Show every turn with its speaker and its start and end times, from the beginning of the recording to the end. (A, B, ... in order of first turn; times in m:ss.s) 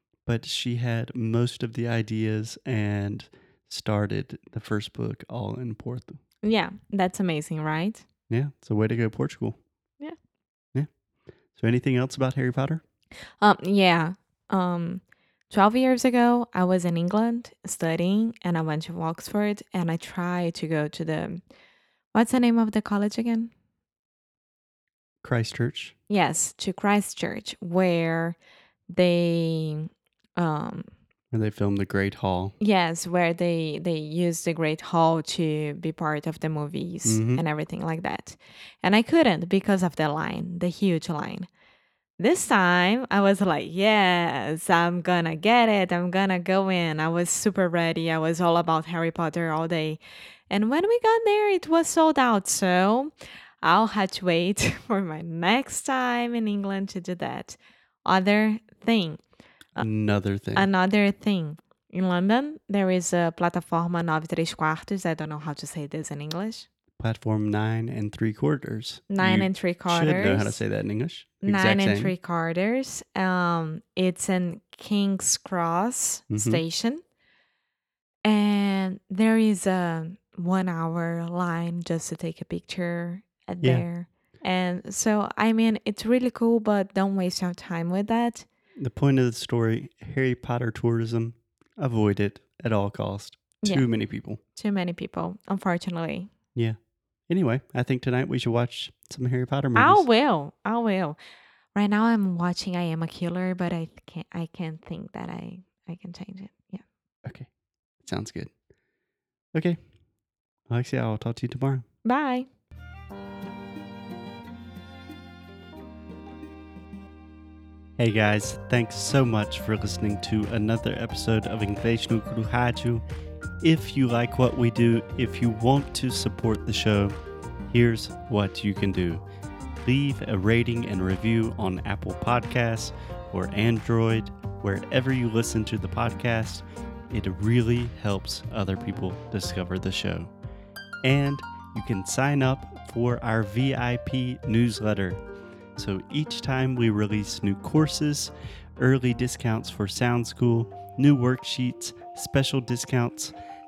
0:00.2-0:06.2 A
0:06.4-0:08.1 B
0:08.3-0:09.6 A
0:10.7-0:11.0 A
0:11.5-0:12.8 A
0:13.4-0:21.4 B
0:22.1-0:23.5 B
0:25.2-0:26.0 A
0:26.1-0:28.4 B
0:28.9-0:30.9 B
0:31.3-0:32.6 A
0:32.6-0:41.5 B
0:37.0-0:37.4 A
0:42.2-0:59.2 B
0:59.8-1:00.7 A
1:00.5-1:06.7 B
1:07.0-1:12.1 A
1:09.1-1:10.6 B
1:11.4-1:17.0 B
1:16.3-1:16.6 A
1:18.2-1:28.5 B
1:23.6-1:23.9 A
1:28.8-1:34.4 A
1:33.6-1:36.3 B
1:36.6-1:40.1 A
1:39.8-1:41.2 B
1:41.7-1:46.8 B
1:47.2-1:48.5 A
1:49.5-1:49.8 A
1:50.7-1:51.8 A
1:52.0-1:52.5 B
1:58.0-2:03.0 A
2:03.6-2:07.2 A
2:07.7-2:09.2 A
2:09.8-2:20.3 A
2:21.0-2:25.2 A
2:25.8-2:33.3 A